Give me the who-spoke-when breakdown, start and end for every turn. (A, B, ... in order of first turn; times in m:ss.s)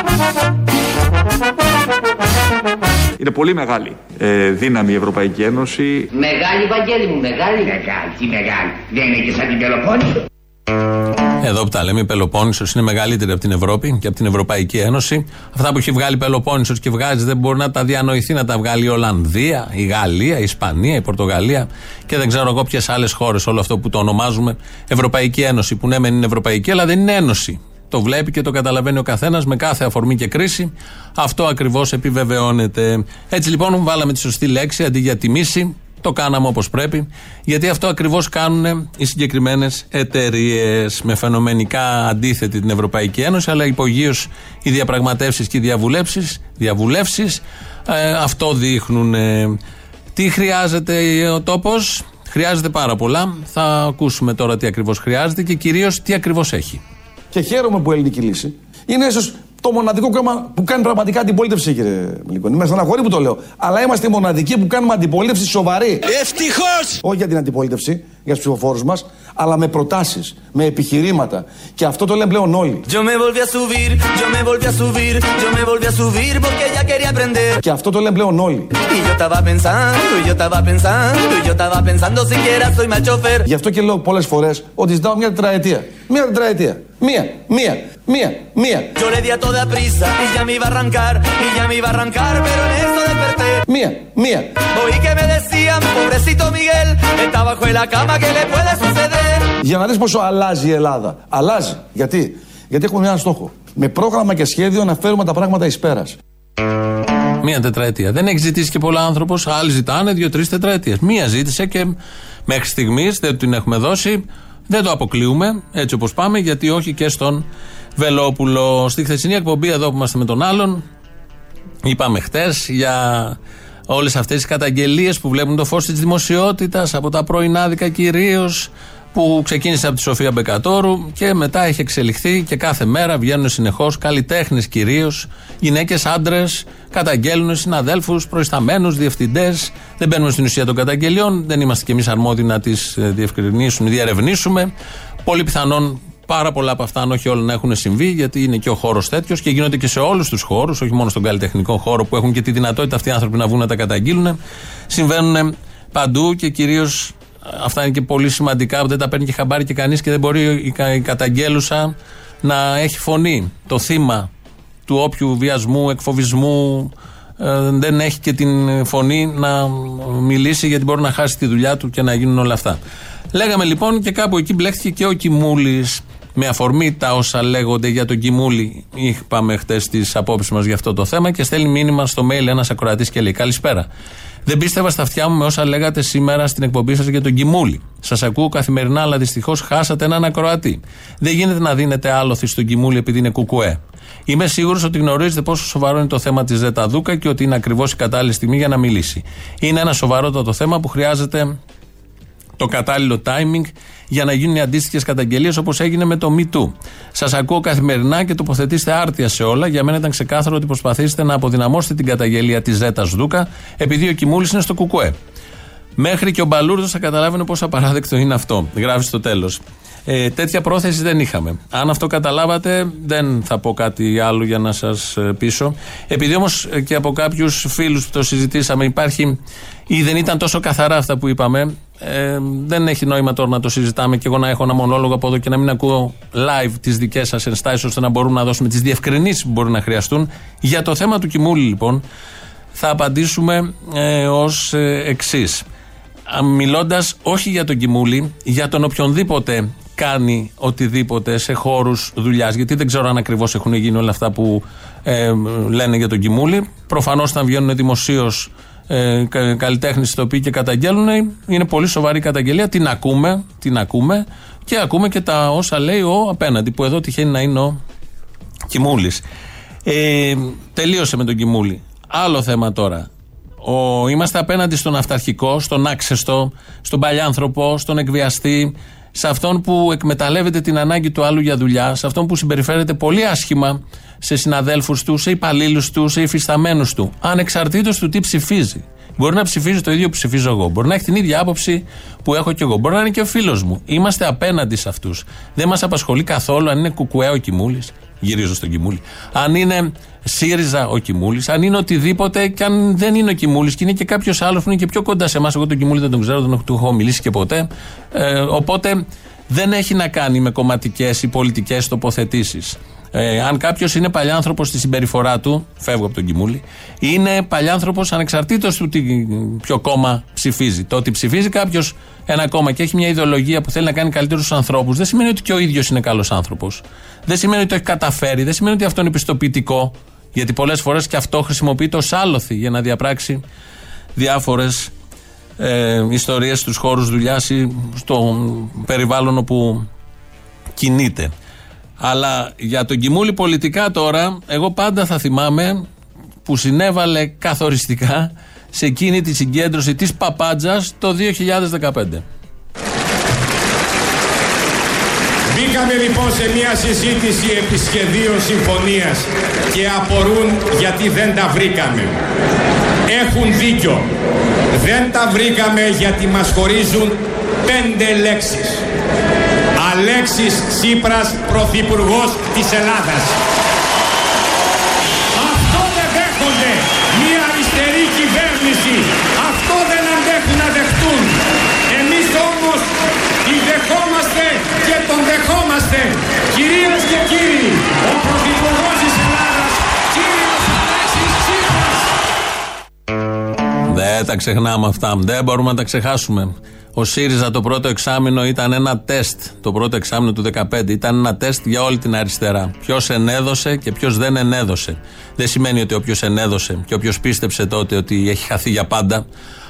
0:03.2-0:06.1 A
0:06.1-0:10.2 B
0:11.4-0:49.6 C
0:50.1-0:56.8 C
0:57.3-1:06.0 D
1:07.0-1:12.8 D
1:12.9-1:17.6 E
1:17.6-1:18.7 D
1:18.9-1:23.4 E
1:23.5-1:28.9 D
1:29.0-1:33.6 E
1:33.7-1:34.6 D
1:34.7-1:39.4 E
1:39.6-1:46.2 D
1:47.4-1:51.9 C
1:52.5-1:57.4 C
1:58.0-2:00.8 C
2:01.8-2:03.4 C
2:03.9-2:24.7 C
2:25.2-2:34.4 C
2:34.9-2:44.3 C
2:44.9-2:52.8 C
2:53.3-3:03.9 C
3:04.4-3:21.6 C
3:22.6-3:35.1 C
3:36.0-3:49.4 C
3:49.9-4:02.0 C
4:02.7-4:05.6 C
4:06.3-4:27.8 C
4:28.7-4:29.2 C
4:29.8-4:33.1 C
4:33.6-5:33.4 C
5:34.2-5:34.9 C
5:35.6-5:39.8 C
5:40.8-5:41.3 C
5:42.0-5:45.8 C
5:46.4-5:52.2 C
5:55.5-6:02.1 F
6:03.1-6:04.1 F
6:04.7-6:08.8 F
6:09.8-6:13.4 F
6:15.3-6:22.9 F
6:23.4-6:32.0 F
6:33.9-6:49.2 C